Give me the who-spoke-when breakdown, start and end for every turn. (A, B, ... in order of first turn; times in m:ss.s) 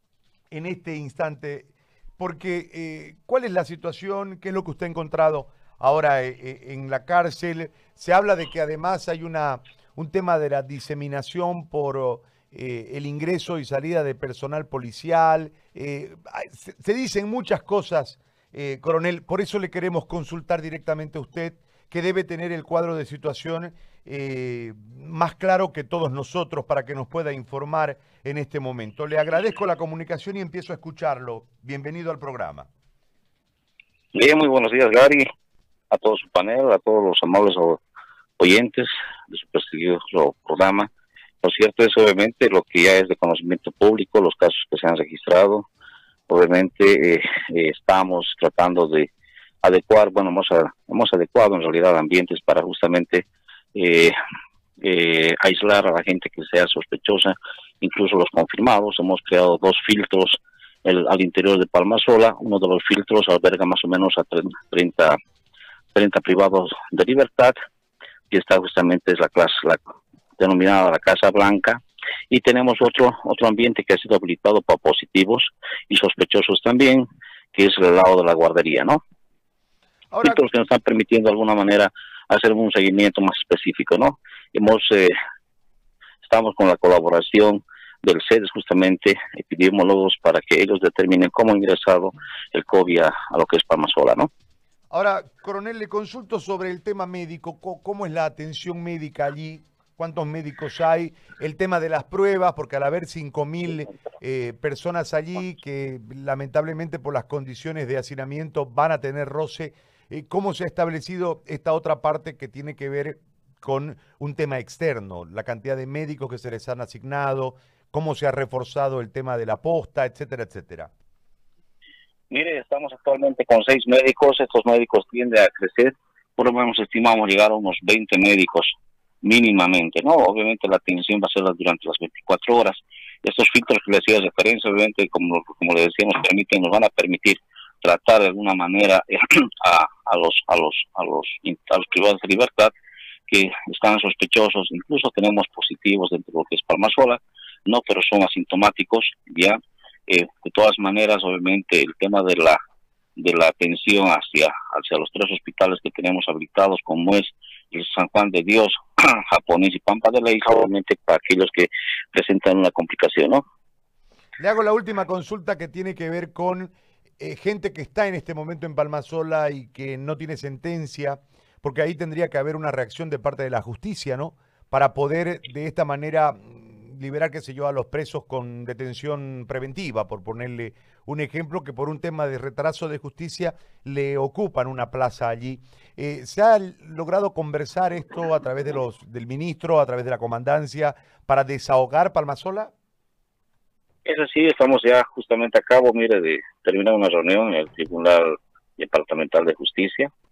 0:00.5-0:32.7 A
0:34.1-0:35.2 B
0:35.9-0:37.8 B
0:38.4-0:40.9 B
0:41.4-0:45.7 B
0:46.3-0:49.1 B
0:49.6-0:54.1 B
0:54.8-1:05.2 B
1:05.9-1:07.5 B
1:08.3-1:19.0 B
1:20.1-1:20.4 A
1:20.2-1:25.1 B
1:26.2-1:34.3 B
1:34.9-2:00.9 A
2:02.3-2:22.7 B
2:23.3-2:32.6 B
2:33.2-2:43.4 B
2:44.4-3:12.7 A
3:14.0-3:20.1 B